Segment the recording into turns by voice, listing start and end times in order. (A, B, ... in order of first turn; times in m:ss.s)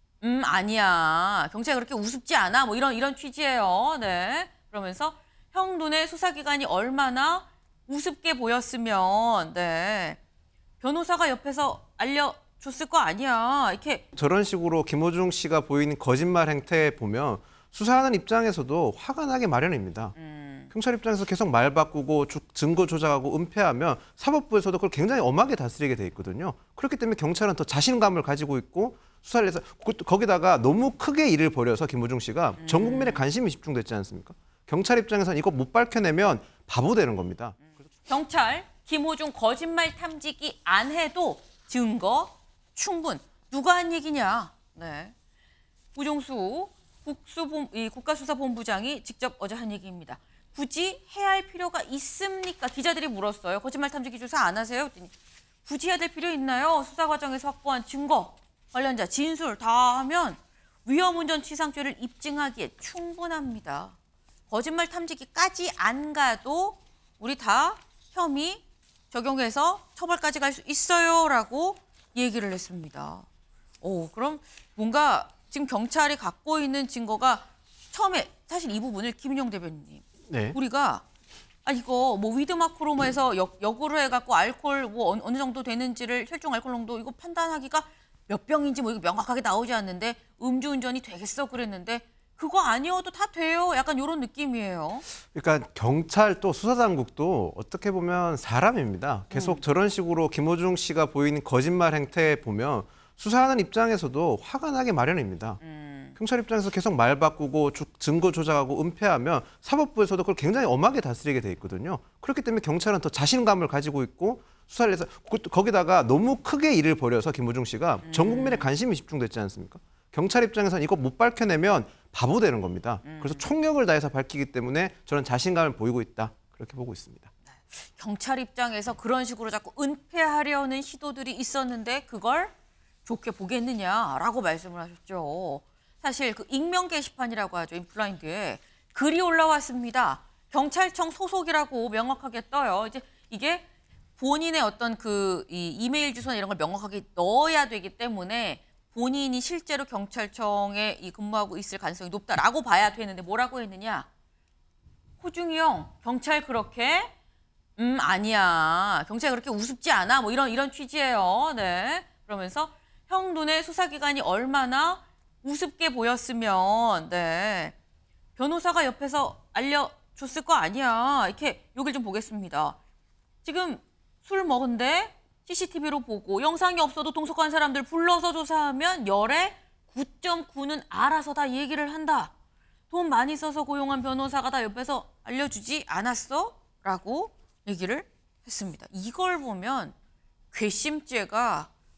0:00.2-0:10.2 A
0:10.8-0:14.0 A
0:14.2-0:20.2 B
0:20.2-0:20.7 A
0:20.7-0:37.7 B
0:32.6-0:33.3 A
0:38.0-0:45.1 A
0:45.9-0:55.1 A
0:55.6-1:04.0 A
1:04.5-1:13.2 A
1:13.8-1:21.0 A
1:20.3-1:20.6 B
1:21.6-1:35.0 A
1:35.3-1:45.6 B
1:39.3-1:39.6 A
1:45.6-1:46.2 A
1:46.2-2:07.3 B
1:58.0-1:58.7 A
2:03.0-2:03.5 A
2:07.7-2:12.5 A
2:13.0-2:23.6 A
2:24.2-2:34.1 A
2:35.2-2:37.1 A
2:37.8-2:47.7 A
2:48.4-2:52.8 A
2:53.4-3:02.3 A
3:02.9-3:09.9 A
3:10.5-3:11.7 A